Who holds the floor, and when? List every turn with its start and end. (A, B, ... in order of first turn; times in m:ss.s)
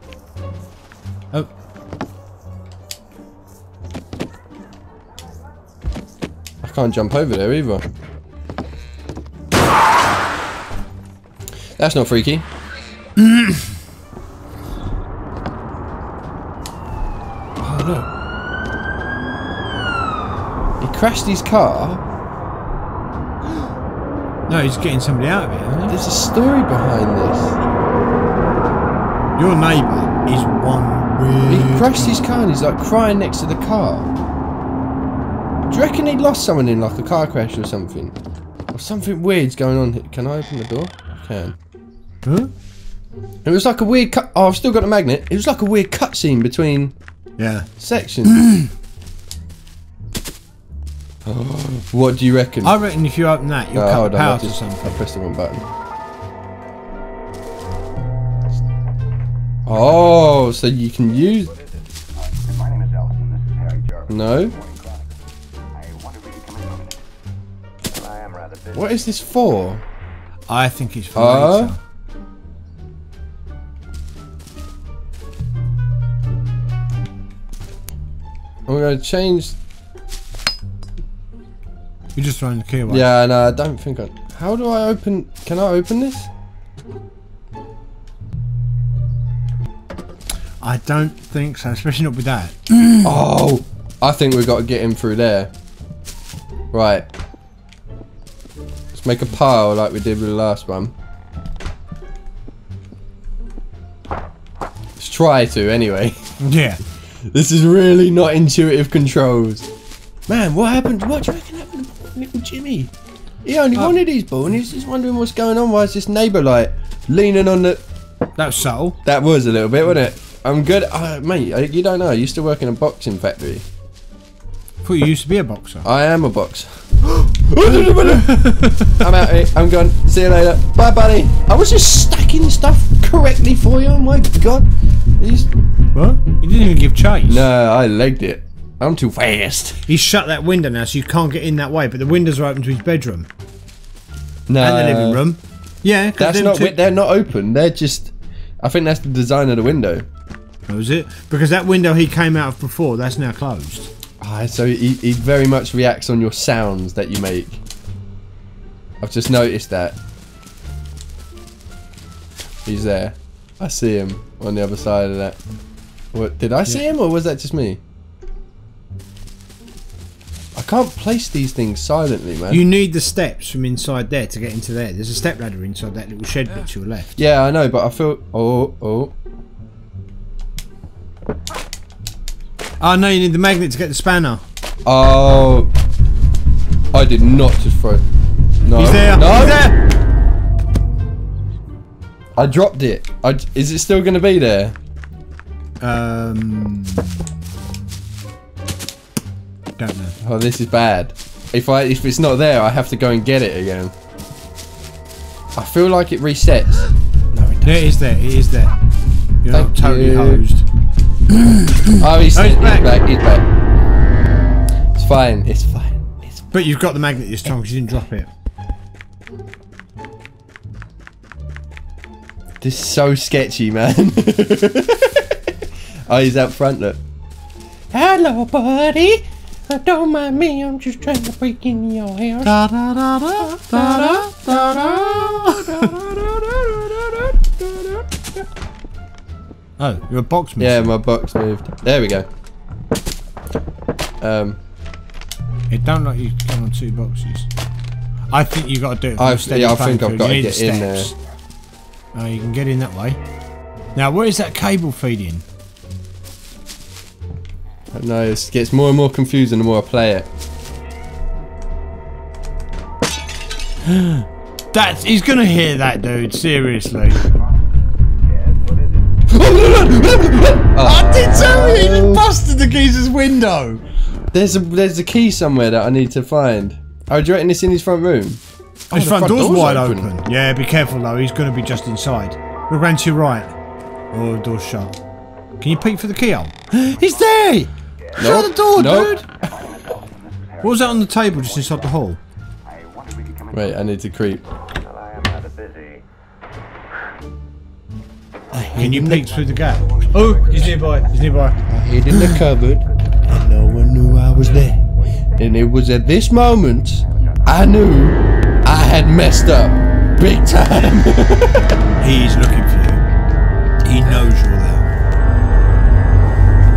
0:06.6-0:07.8 A
0:11.8-0:12.4 A
0:13.2-0:13.6 B
0:17.6-0:18.1 A
0:20.8-0:22.0 A
0:24.5-0:26.0 B
0:25.9-0:27.6 A
0:29.4-0:32.2 B
0:31.5-0:34.1 A
0:35.7-0:38.2 A
0:38.7-0:41.6 A
0:42.2-0:42.5 B
0:43.4-0:47.0 A
0:47.4-0:47.7 B
0:47.8-0:48.4 A
0:48.3-0:48.7 B
0:51.2-0:52.8 A
0:52.6-0:55.0 B
0:53.7-0:55.7 A
0:59.7-1:01.5 A
0:59.8-1:00.2 B
1:01.3-1:05.2 C
1:04.1-1:04.6 A
1:05.7-1:07.0 C
1:07.9-1:08.9 C
1:08.7-1:09.8 A
1:10.5-1:11.8 B
1:11.2-1:11.7 A
1:18.7-1:19.6 A
1:22.2-1:23.1 B
1:22.9-1:26.3 A
1:30.6-1:33.1 B
1:33.0-1:35.5 A
1:36.7-1:37.1 A
1:38.9-1:40.9 A
1:45.0-1:46.2 A
1:46.4-1:46.8 B
1:47.2-1:49.7 A
1:50.3-1:52.9 A
1:53.4-1:57.8 A
1:58.4-1:59.0 B
1:59.0-2:03.6 A
2:04.8-2:05.9 B
2:05.8-2:15.5 A
2:07.8-2:09.1 B
2:16.0-2:17.5 B
2:17.3-2:19.8 A
2:19.9-2:23.3 B
2:24.5-2:25.2 A
2:24.6-2:26.8 B
2:26.2-2:30.1 A
2:30.7-2:33.9 B
2:34.2-2:37.6 A
2:39.0-2:40.0 A
2:42.6-2:45.4 A
2:46.1-2:47.8 A
2:50.6-2:52.7 A
2:52.5-2:57.1 B
2:57.2-2:59.1 A
3:02.8-3:04.4 B
3:04.8-3:05.7 A
3:06.9-3:08.0 A
3:08.6-3:09.6 A
3:08.8-3:09.8 B
3:12.4-3:14.8 A
3:15.8-3:17.2 B
3:19.8-3:20.2 B
3:20.2-3:23.9 A
3:25.6-3:27.9 A
3:27.6-3:28.7 B
3:29.4-3:30.6 B
3:29.5-3:30.5 A
3:31.3-3:32.9 B
3:32.0-3:33.5 A
3:35.0-3:36.5 A
3:36.5-3:38.3 B
3:42.6-3:45.5 A
3:46.1-3:47.0 A
3:47.9-3:52.6 A
3:52.4-3:55.9 B
3:53.4-3:58.2 A
3:59.8-4:00.9 B
4:00.6-4:02.3 A
4:04.2-4:04.6 A
4:05.7-4:07.5 B
4:08.3-4:11.2 B
4:09.2-4:11.1 A
4:12.1-4:13.2 B
4:14.0-4:15.4 B
4:17.9-4:20.3 A
4:23.8-4:27.3 B
4:28.3-4:29.2 C
4:29.3-4:32.2 A
4:30.8-4:33.8 B
4:34.3-4:40.1 A
4:38.9-4:43.6 B
4:44.1-4:45.0 B
4:45.6-4:49.3 B
4:48.0-4:48.4 C
4:48.2-4:49.2 A
4:49.4-4:52.0 C
4:50.6-4:52.2 B
4:52.6-4:53.8 C
4:53.5-4:54.4 A
4:54.7-4:56.0 C
4:58.5-4:59.3 A
4:58.7-5:02.4 B
4:59.1-5:01.2 C
5:01.7-5:04.8 A
5:05.4-5:11.7 A
5:12.0-5:13.0 B
5:13.8-5:14.9 B